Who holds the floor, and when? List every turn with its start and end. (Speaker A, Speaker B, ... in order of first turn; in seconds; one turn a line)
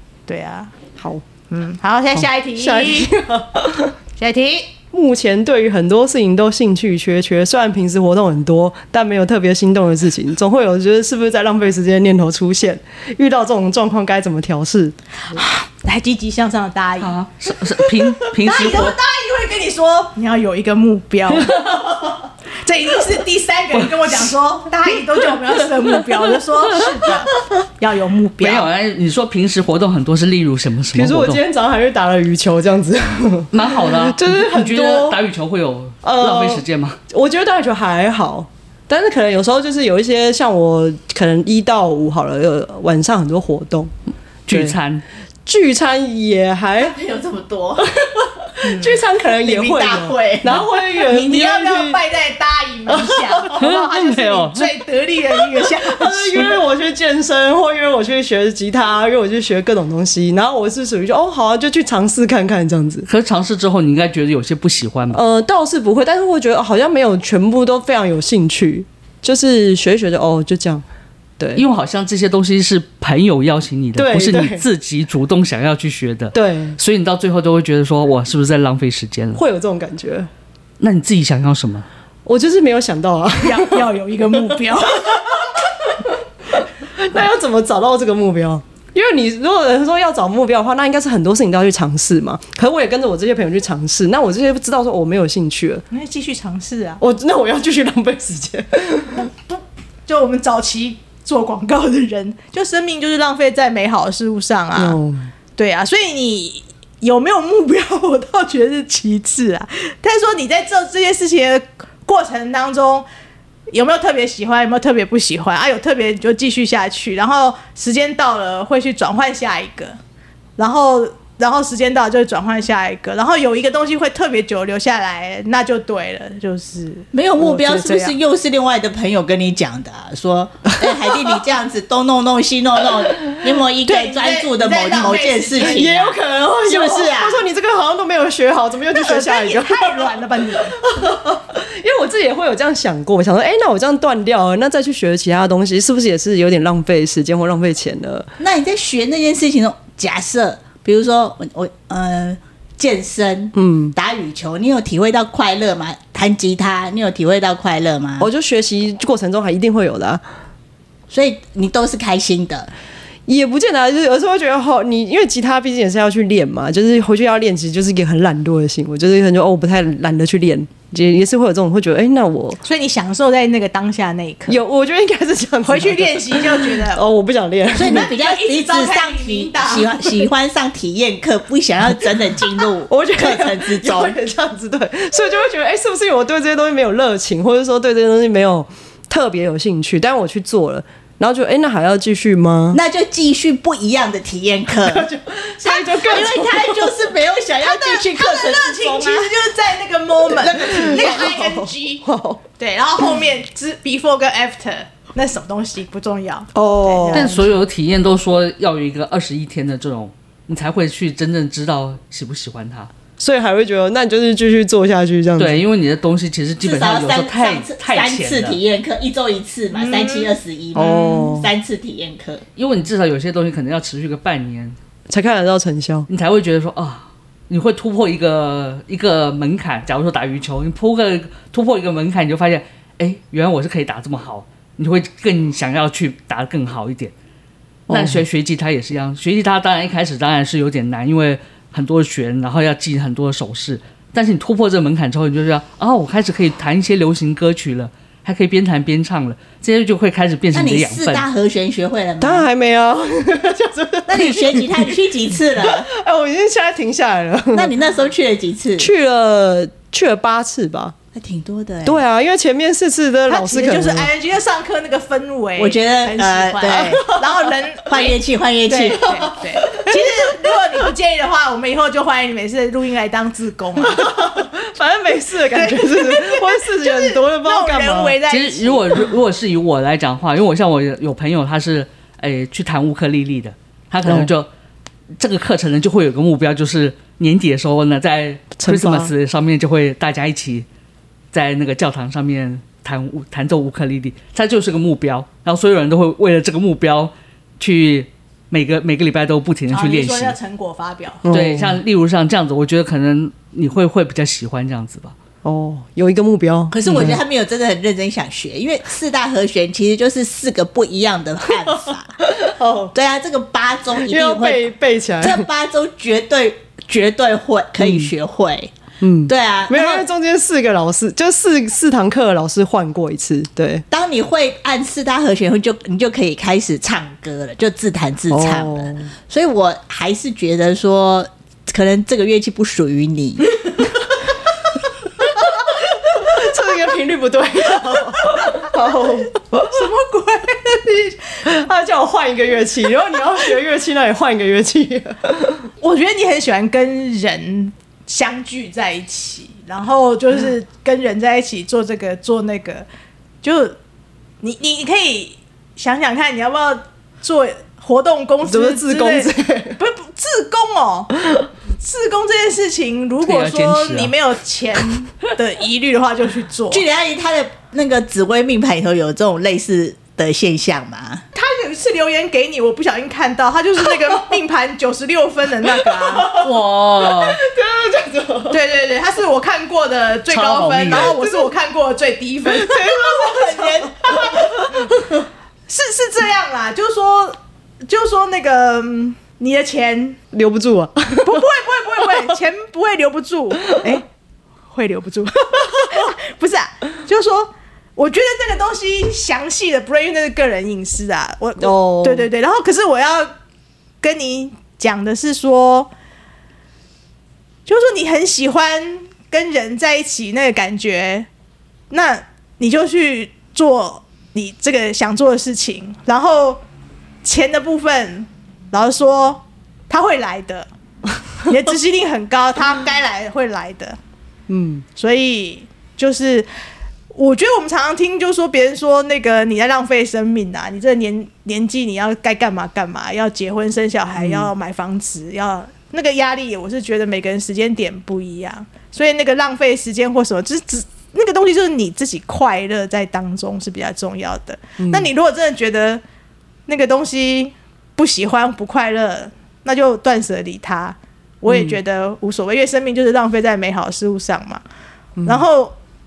Speaker A: 0.3-0.7
Speaker B: 1.0-1.2
Speaker A: 1.5-3.1
Speaker B: 2.1-3.9
Speaker A: 4.2-4.7
Speaker B: 4.9-15.4
Speaker A: 15.4-17.2
Speaker C: 17.0-19.0
Speaker A: 18.2-28.7
Speaker C: 28.4-31.4
Speaker B: 30.9-35.2
Speaker C: 33.5-37.0
Speaker B: 36.0-43.9
Speaker C: 44.5-45.0
Speaker B: 44.5-44.8
Speaker B: 45.5-47.0
Speaker D: 46.8-48.6
Speaker B: 48.0-52.0
Speaker A: 48.6-49.0
Speaker D: 49.2-50.6
Speaker A: 51.1-56.6
Speaker B: 52.9-53.7
Speaker C: 53.5-54.7
Speaker B: 55.6-63.1
Speaker C: 63.1-65.2
Speaker B: 65.1-70.8
Speaker B: 71.4-71.6
Speaker C: 71.6-79.4
Speaker B: 74.0-74.6
Speaker B: 76.3-76.8
Speaker B: 79.4-80.3
Speaker C: 80.8-81.9
Speaker B: 82.3-83.8
Speaker A: 83.4-85.6
Speaker B: 85.5-95.8
Speaker A: 95.9-97.0
Speaker B: 97.0-99.3
Speaker A: 99.5-105.0
Speaker B: 104.8-105.3
Speaker A: 105.6-113.1
Speaker A: 113.7-120.0
Speaker A: 120.6-128.2
Speaker D: 127.1-137.4
Speaker A: 133.8-135.9
Speaker B: 135.6-140.1
Speaker A: 138.9-140.8
Speaker B: 140.7-148.3
Speaker D: 148.4-158.3
Speaker B: 153.5-153.9
Speaker B: 158.2-160.2
Speaker D: 161.1-162.7
Speaker B: 163.3-172.6
Speaker A: 172.6-174.6
Speaker B: 174.5-178.1
Speaker A: 175.7-177.0
Speaker D: 177.7-184.2
Speaker A: 177.8-180.3
Speaker B: 182.9-192.8
Speaker D: 192.7-195.1
Speaker B: 194.8-196.9
Speaker D: 195.6-199.4
Speaker A: 197.6-202.1
Speaker D: 200.3-201.3
Speaker B: 200.6-202.4
Speaker A: 202.6-207.4
Speaker B: 206.5-207.4
Speaker C: 207.1-212.9
Speaker B: 213.2-215.7
Speaker C: 215.4-218.6
Speaker D: 216.6-222.4
Speaker A: 219.7-221.1
Speaker B: 220.8-221.5
Speaker C: 222.6-224.8
Speaker B: 225.1-226.1
Speaker C: 226.1-237.1
Speaker B: 237.9-238.2
Speaker C: 237.9-251.3
Speaker D: 250.5-252.5
Speaker B: 252.2-255.0
Speaker D: 254.1-255.9
Speaker B: 255.6-257.7
Speaker D: 257.5-258.9
Speaker B: 258.8-260.9
Speaker D: 261.1-262.0
Speaker B: 261.9-264.1
Speaker A: 263.3-274.1
Speaker D: 265.6-267.1
Speaker D: 267.9-269.3
Speaker B: 269.1-270.5
Speaker B: 273.8-278.2
Speaker A: 275.5-279.1
Speaker C: 278.3-284.5
Speaker B: 284.1-284.3
Speaker C: 285.2-290.7
Speaker B: 288.6-289.1
Speaker C: 291.3-300.4
Speaker A: 299.7-301.2
Speaker B: 301.2-301.8
Speaker C: 301.3-305.1
Speaker B: 305.4-307.2
Speaker D: 306.7-312.2
Speaker B: 312.2-312.9
Speaker D: 312.9-318.7
Speaker B: 314.0-315.5
Speaker B: 317.8-318.1
Speaker B: 319.0-323.9
Speaker D: 319.3-320.1
Speaker D: 323.9-333.6
Speaker B: 328.3-329.1
Speaker B: 336.1-339.8
Speaker A: 339.6-341.4
Speaker B: 341.4-345.6
Speaker A: 345.8-352.9
Speaker A: 353.4-353.8
Speaker A: 354.4-366.9
Speaker B: 358.5-359.8
Speaker C: 363.2-364.1
Speaker D: 366.7-371.2
Speaker A: 371.3-376.4
Speaker B: 375.7-378.6
Speaker C: 376.3-377.4
Speaker A: 378.5-384.9
Speaker C: 380.3-381.2
Speaker B: 381.0-381.5
Speaker B: 382.5-385.3
Speaker A: 385.7-390.2
Speaker B: 390.3-391.5
Speaker A: 391.2-394.1
Speaker A: 394.7-403.3
Speaker B: 401.6-402.3
Speaker A: 404.0-405.9
Speaker A: 407.7-411.3
Speaker A: 411.9-416.6
Speaker A: 417.2-420.7
Speaker A: 421.4-424.0
Speaker B: 424.5-424.9
Speaker A: 425.0-426.5
Speaker A: 427.1-446.0
Speaker B: 434.2-434.5
Speaker B: 444.8-445.1
Speaker A: 446.7-454.6
Speaker B: 451.5-451.8
Speaker B: 455.2-455.4
Speaker A: 455.3-455.8